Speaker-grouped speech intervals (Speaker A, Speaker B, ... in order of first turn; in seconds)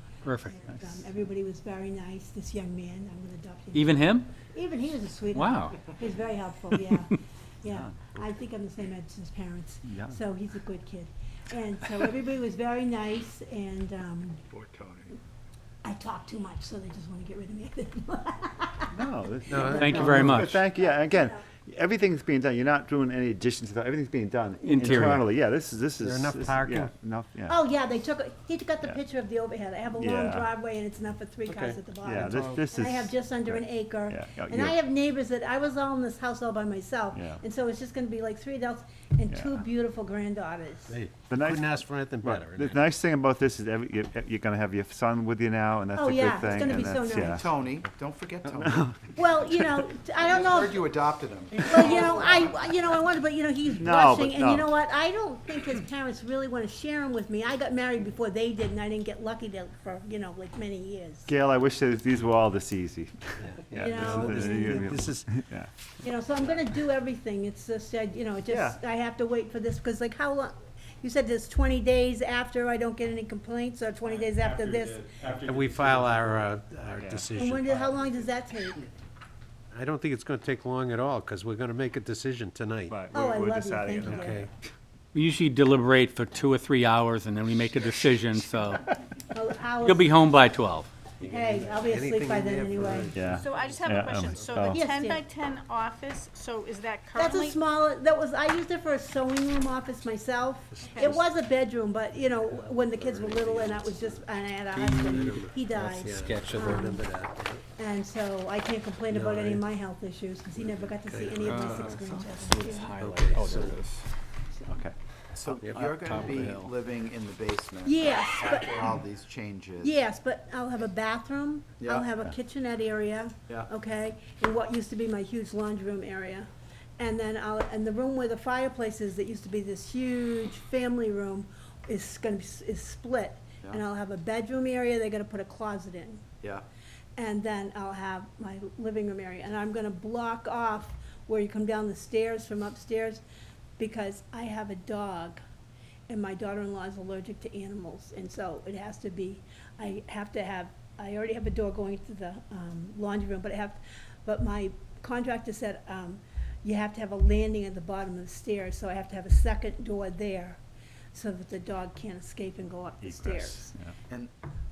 Speaker A: 0.2-0.6, 3.7-4.3, 5.3-5.9, 19.7-20.6, 24.6-25.2, 85.1-88.9, 89.8-90.9, 104.8-107.0, 111.4-114.1, 115.6-116.7
Speaker B: 0.5-14.4, 15.8-19.0, 19.6-20.2, 27.5-41.0, 46.0-47.5, 49.1-51.0, 51.6-61.3, 63.7-64.9, 66.0-75.1, 77.3-78.8, 83.1-84.5, 89.3-90.2, 91.2-93.2, 94.6-95.2, 97.2-107.1, 107.8-113.0, 117.8-119.0, 119.8-136.2, 137.2-143.2, 143.8-145.4, 146.1-160.6, 161.1-163.7
Speaker C: 0.7-1.0, 9.9-10.2, 18.9-27.6, 30.0-30.5, 32.0-34.8, 37.1-37.4, 39.3-39.6, 41.3-47.5, 48.6-49.0, 53.8-54.7, 61.3-65.7, 68.5-68.8, 77.0-77.3, 82.9-84.5, 93.1-94.8, 114.7-114.9, 163.0-163.9
Speaker D: 19.5-20.5, 26.0-26.9, 31.5-32.7, 40.9-42.8, 63.5-65.3, 75.3-77.8, 79.7-83.0, 84.0-84.5, 91.8-93.8, 100.7-101.2, 102.4-104.2, 105.1-107.6, 109.1-109.7, 110.6-112.0, 113.0-113.8, 115.6-115.9
Speaker E: 47.2-49.0, 50.2-52.2, 115.3-120.0, 121.8-122.1
Speaker F: 93.4-97.6